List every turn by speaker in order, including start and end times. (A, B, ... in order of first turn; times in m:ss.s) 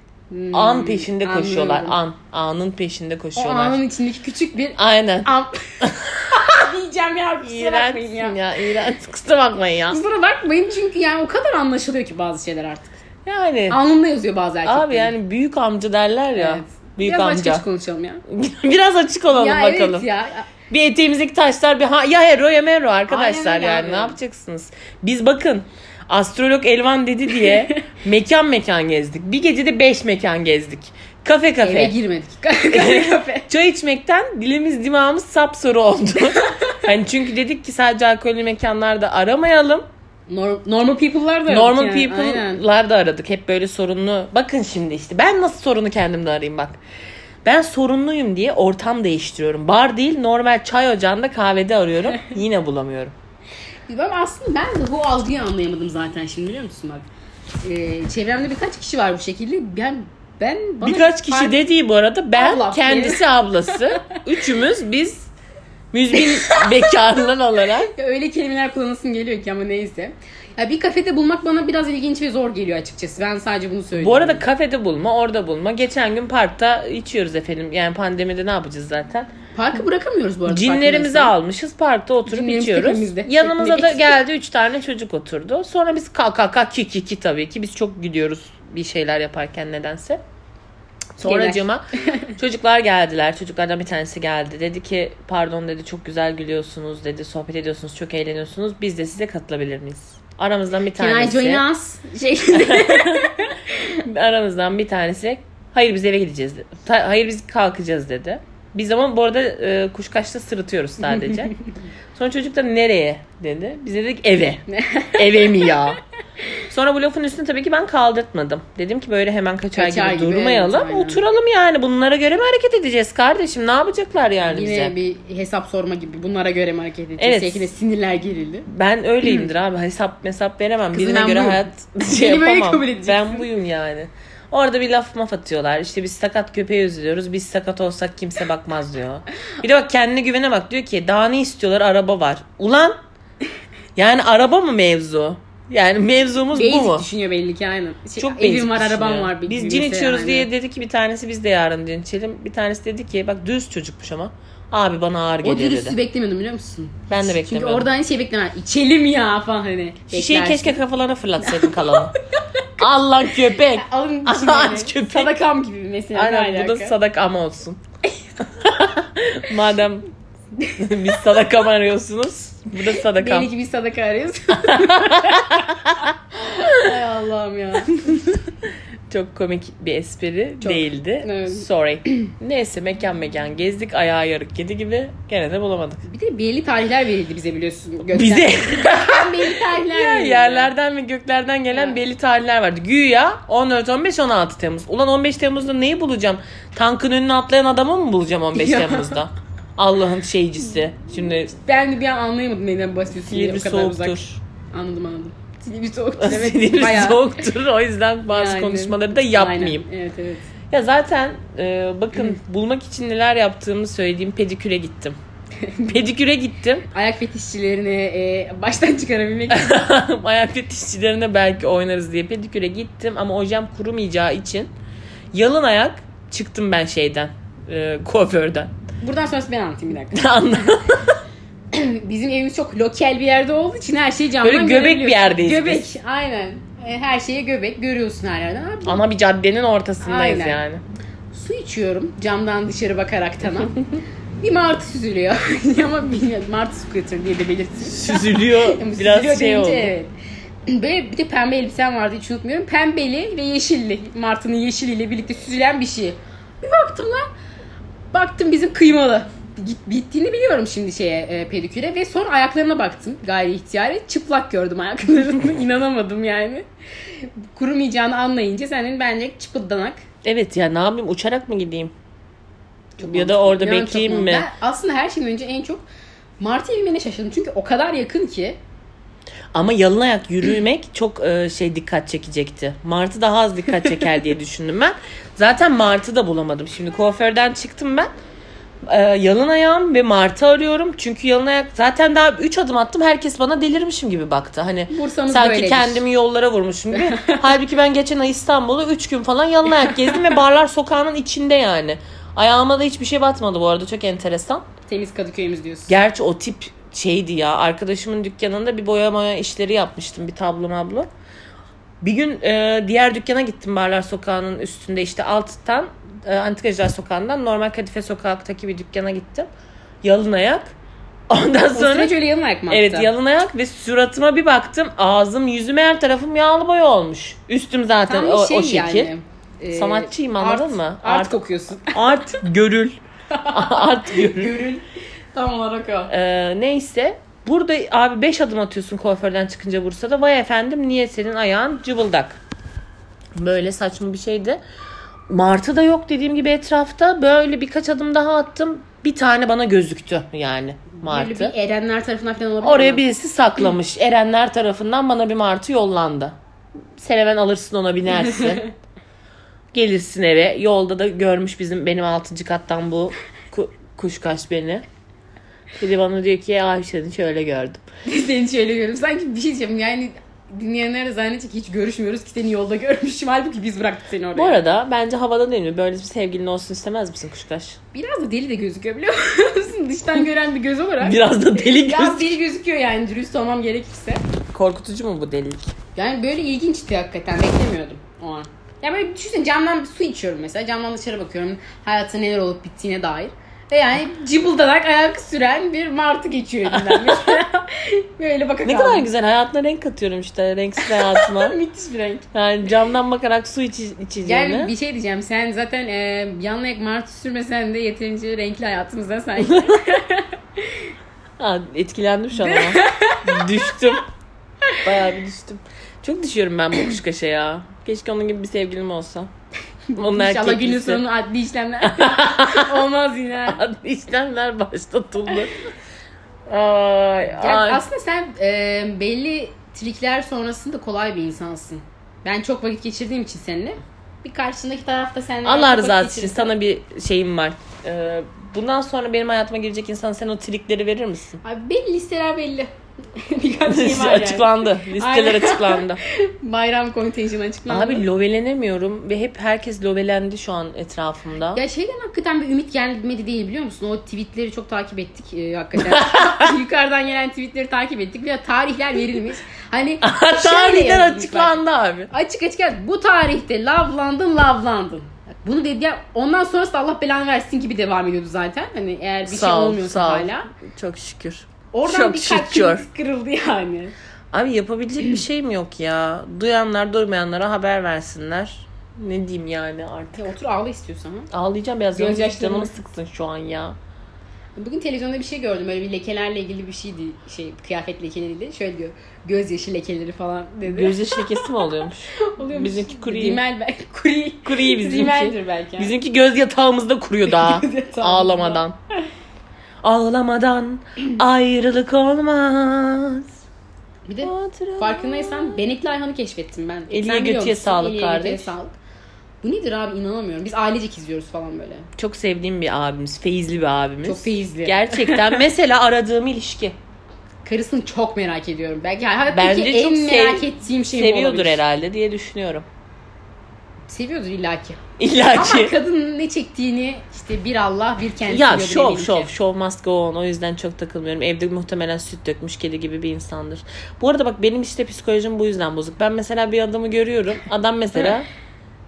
0:00.3-0:02.0 A
0:00.5-0:03.8 B
0:03.4-0:05.6 A
0:04.8-0:06.4 B
0:06.3-0:08.4 A
0:07.4-0:10.0 B
0:09.9-0:13.0 A
0:13.2-0:13.8 B
0:13.7-0:15.1 A
0:14.6-0:17.6 B
0:16.3-0:18.2 A
0:18.3-0:20.0 B
0:19.3-0:20.4 A
0:20.7-0:31.9 B
0:23.1-0:24.2 A
0:27.3-0:27.8 A
0:31.6-0:33.5 A
0:32.7-0:39.8 B
0:36.2-0:36.7 A
0:40.3-0:42.6 A
0:41.5-0:46.8 B
0:47.4-0:53.1 B
0:53.9-0:57.0 A
0:57.6-1:01.6 A
1:00.8-1:05.3 B
1:02.3-1:04.0 A
1:05.9-1:07.9 B
1:06.1-1:07.0 A
1:07.9-1:14.4 A
1:14.0-1:19.3 B
1:19.5-1:21.3 A
1:20.5-1:30.2 B
1:22.3-1:24.1 A
1:31.2-1:31.8 B
1:31.2-1:32.3 A
1:32.4-1:41.6 B
1:40.9-1:44.0 A
1:42.5-1:43.3 B
1:44.0-1:51.5 B
1:51.1-1:51.5 A
1:52.1-1:56.0 B
1:54.7-1:55.9 A
1:56.6-2:04.9 B
1:59.8-2:01.2 A
2:04.5-2:08.6 A
2:07.2-2:07.7 B
2:08.7-2:23.0 B
2:09.2-2:09.5 A
2:10.9-2:13.5 A
2:24.0-2:27.0 B
2:26.5-2:30.5 A
2:28.2-2:36.0 B
2:35.4-2:40.8 A
2:37.1-2:37.9 B
2:40.1-2:42.1 B
2:41.4-2:42.1 A
2:42.8-2:45.3 B
2:43.5-2:46.9 A
2:46.1-2:47.8 B
2:48.5-2:50.0 B
2:50.6-2:53.5 B
2:52.9-2:55.8 A
2:54.7-2:56.1 B
2:56.3-2:58.4 A
2:59.1-3:06.0 B
3:00.6-3:02.3 A
3:06.0-3:10.7 A
3:08.1-3:21.6 B
3:11.7-3:12.0 A
3:18.5-3:19.2 A
3:21.5-3:24.2 A
3:23.3-3:24.4 B
3:24.7-3:27.4 A
3:26.2-3:29.8 B
3:28.3-3:30.5 A
3:30.7-3:35.2 B
3:35.6-3:36.1 A
3:35.9-3:36.8 B
3:36.9-3:39.8 A
3:39.5-3:44.7 B
3:45.3-3:48.7 B
3:49.0-3:50.8 A
3:50.1-3:51.2 B
3:51.7-3:59.0 A
3:54.4-3:55.8 B
3:58.8-4:00.8 B
4:00.0-4:00.6 A
4:01.3-4:10.1 A
4:07.8-4:09.9 B
4:10.7-4:17.3 A
4:18.1-4:30.0 A
4:30.2-4:31.9 B
4:33.0-4:35.8 A
4:33.0-4:34.5 B
4:36.4-4:38.6 A
4:39.5-4:48.1 B
4:48.9-5:04.6 B
4:54.9-4:56.0 A
4:56.9-4:57.6 A
4:59.7-5:00.2 A
5:04.9-5:06.0 A
5:05.9-5:11.1 B
5:12.0-5:19.5 B
5:20.0-5:20.7 B
5:21.3-5:22.1 B
5:21.7-5:23.1 A
5:22.7-5:29.1 B
5:28.0-5:32.4 A
5:29.7-5:31.4 B
5:31.9-5:34.5 B
5:33.3-5:36.1 A
5:36.1-5:42.4 B
5:43.4-5:44.6 B
5:45.3-5:51.5 B
5:51.0-5:53.0 A
5:52.6-5:56.4 B
5:57.0-5:58.7 B
5:58.1-5:58.6 A
5:59.7-6:04.8 B
6:05.8-6:07.8 B
6:08.1-6:14.6 A
6:14.3-6:17.8 B
6:17.9-6:24.2 A
6:21.0-6:22.3 B
6:24.5-6:25.6 B
6:26.0-6:39.1 A
6:36.7-6:37.3 B
6:38.6-6:41.6 B
6:40.8-6:42.3 A
6:42.3-6:44.7 B
6:44.2-6:50.9 A
6:49.4-6:49.7 B
6:51.4-6:54.0 B
6:52.3-6:53.2 A
6:54.8-6:59.3 B
6:59.9-7:03.6 A
6:59.9-7:01.0 B
7:01.8-7:02.7 B
7:03.5-7:05.5 B
7:06.5-7:07.8 B
7:07.4-7:16.5 A
7:15.4-7:21.4 B
7:21.4-7:28.0 A
7:23.6-7:26.0 B
7:27.7-7:31.6 B
7:31.5-7:41.6 A
7:35.8-7:36.5 B
7:40.0-7:42.1 B
7:42.1-7:50.5 A
7:49.2-7:52.8 B
7:51.7-7:53.9 A
7:54.3-8:00.3 B
8:00.1-8:01.3 A
8:01.3-8:03.8 B
8:01.9-8:02.7 A
8:04.6-8:15.9 A
8:10.6-8:13.4 B
8:14.4-8:18.8 B
8:17.2-8:18.6 A
8:19.8-8:23.3 B
8:24.1-8:28.8 A
8:24.2-8:25.6 B
8:26.9-8:28.5 B
8:29.4-8:31.9 A
8:32.0-8:36.8 B
8:34.0-8:35.4 A
8:37.4-8:41.6 A
8:39.3-8:42.6 B
8:43.9-8:44.8 A
8:45.0-8:45.7 B
8:45.3-8:49.3 A
8:48.3-8:58.3 B